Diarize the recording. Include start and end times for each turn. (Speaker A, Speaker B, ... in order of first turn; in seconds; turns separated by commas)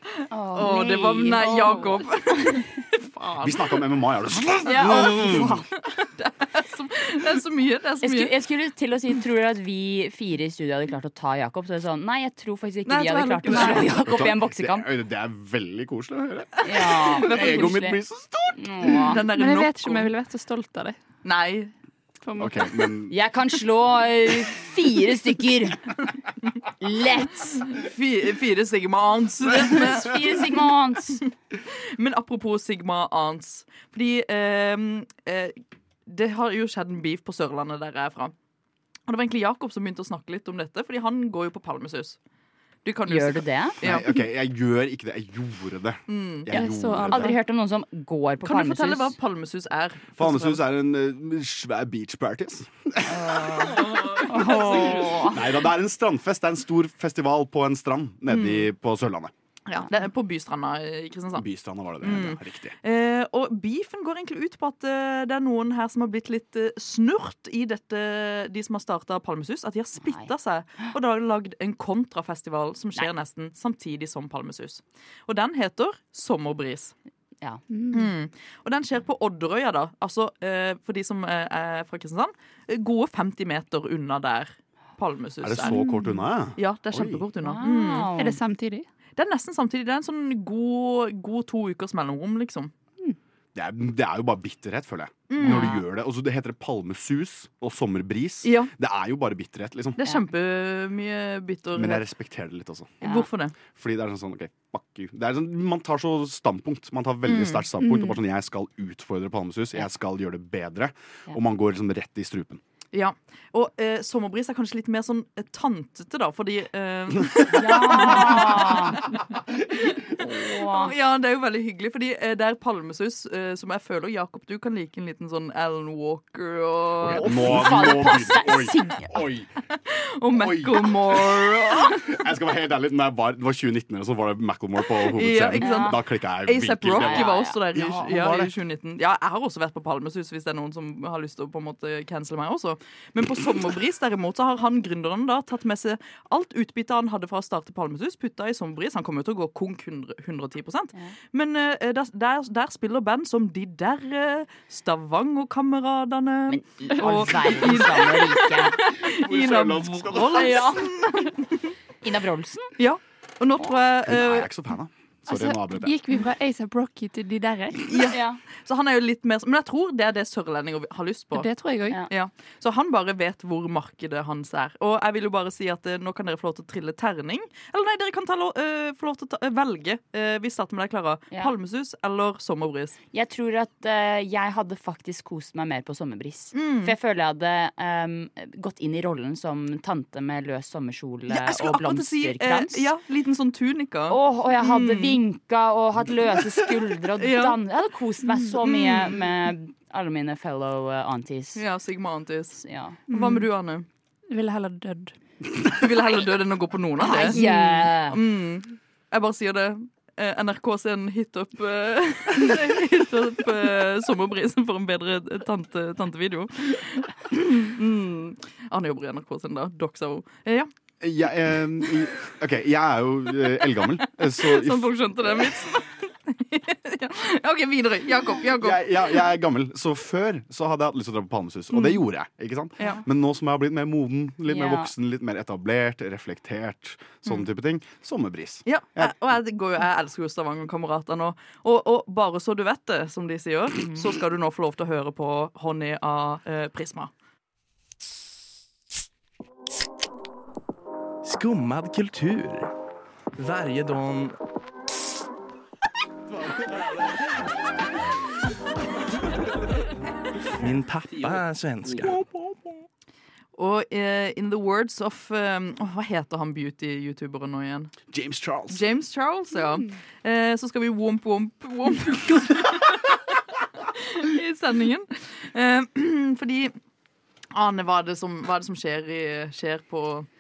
Speaker A: 0.3-2.6, Speaker B: 0.5-3.8, Speaker C: 1.5-1.9, Speaker D: 3.4-5.7, Speaker A: 4.7-5.7, Speaker B: 4.8-8.3, Speaker A: 8.0-14.9, Speaker B: 12.9-14.2, Speaker C: 13.5-13.9, Speaker D: 14.1-19.0, Speaker A: 16.6-18.0, Speaker B: 16.7-17.9, Speaker A: 18.6-19.2, Speaker B: 18.9-20.1, Speaker C: 19.3-21.0, Speaker B: 21.2-21.7, Speaker C: 22.2-22.9, Speaker D: 22.4-23.1, Speaker A: 23.1-25.9, Speaker A: 26.8-27.6, Speaker B: 27.5-30.4, Speaker A: 29.6-31.2, Speaker B: 31.7-35.6, Speaker B: 36.1-38.3, Speaker B: 39.1-42.2, Speaker B: 42.9-44.1, Speaker A: 43.1-43.8, Speaker D: 43.8-47.3, Speaker B: 46.1-46.6, Speaker C: 46.5-47.4, Speaker A: 47.1-49.2, Speaker B: 48.4-50.6, Speaker D: 50.2-53.9, Speaker A: 53.0-55.5, Speaker B: 54.1-55.0, Speaker D: 54.7-59.3, Speaker B: 58.3-58.7, Speaker B: 59.7-61.5, Speaker D: 61.4-62.8, Speaker B: 62.0-77.0, Speaker A: 70.0-70.3, Speaker C: 77.7-78.1, Speaker B: 77.9-85.8, Speaker D: 85.4-87.2, Speaker B: 86.6-88.1, Speaker A: 87.4-88.4, Speaker C: 88.2-88.9, Speaker B: 89.2-92.7, Speaker D: 93.5-100.0, Speaker B: 95.3-95.8, Speaker A: 95.4-95.8, Speaker B: 98.4-98.7, Speaker B: 100.0-102.1, Speaker D: 101.7-103.1, Speaker B: 103.0-103.6, Speaker D: 103.7-112.6, Speaker B: 107.2-108.0, Speaker B: 112.9-119.0, Speaker A: 117.5-119.1, Speaker D: 117.9-118.5, Speaker A: 120.2-120.9, Speaker B: 120.7-127.8, Speaker D: 127.0-129.5, Speaker A: 127.2-129.1, Speaker B: 129.8-132.1, Speaker D: 130.3-138.5, Speaker B: 135.1-161.7, Speaker A: 135.6-136.0, Speaker A: 136.9-137.6, Speaker A: 156.5-158.9, Speaker D: 157.3-157.8, Speaker D: 159.1-160.8, Speaker A: 160.3-161.3, Speaker A: 162.0-162.7, Speaker B: 162.8-164.5, Speaker D: 164.0-166.0, Speaker C: 165.3-167.9, Speaker B: 167.9-171.5, Speaker A: 168.1-168.4, Speaker C: 171.3-172.0, Speaker B: 172.1-183.0, Speaker A: 183.1-192.9, Speaker B: 186.5-186.9, Speaker B: 191.3-195.2, Speaker A: 194.1-201.6, Speaker B: 197.2-197.6, Speaker B: 198.6-199.2, Speaker B: 201.6-203.9, Speaker A: 202.6-203.0, Speaker C: 203.1-203.5, Speaker C: 204.3-205.1, Speaker B: 205.7-207.4, Speaker A: 207.0-208.2, Speaker C: 207.4-207.8, Speaker B: 208.0-220.7, Speaker D: 221.0-225.5, Speaker B: 224.0-229.3, Speaker D: 228.6-239.2, Speaker B: 231.7-232.0, Speaker A: 234.5-234.9, Speaker B: 238.7-247.1, Speaker E: 251.2-252.7, Speaker E: 253.4-254.3, Speaker E: 260.6-262.2, Speaker B: 263.6-267.9, Speaker D: 268.1-268.8, Speaker B: 268.7-273.2, Speaker B: 273.8-276.8, Speaker B: 277.5-280.3